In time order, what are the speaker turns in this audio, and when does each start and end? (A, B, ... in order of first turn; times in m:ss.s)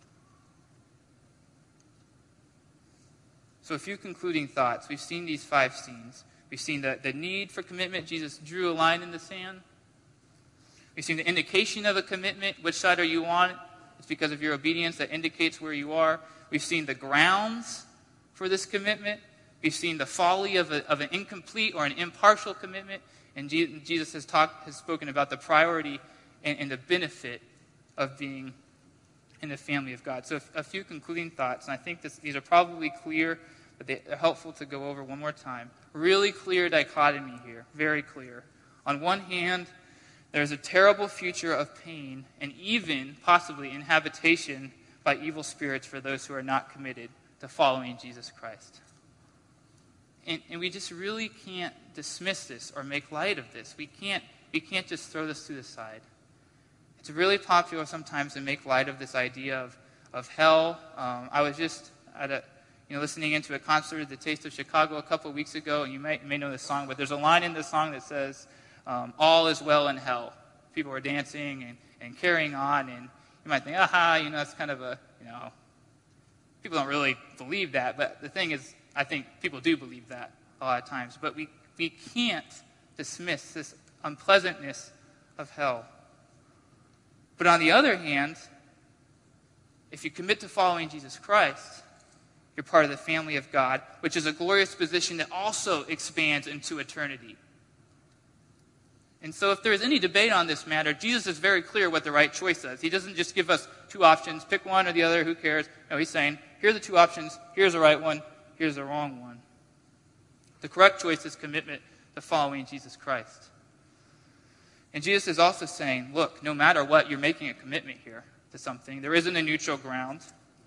0:03.6-0:09.6 A
0:10.9-0:27.4 A
0:28.0-0:28.6 A
0:29.4-0:39.7 A
0:40.3-0:48.8 A
0:50.2-0:56.0 A
0:57.0-1:15.5 A
1:16.6-1:25.9 A
1:27.4-1:28.4 A
1:29.9-1:31.8 A
1:32.6-1:37.4 A
1:39.2-1:49.4 A
1:50.6-1:53.5 A
1:54.9-2:00.3 A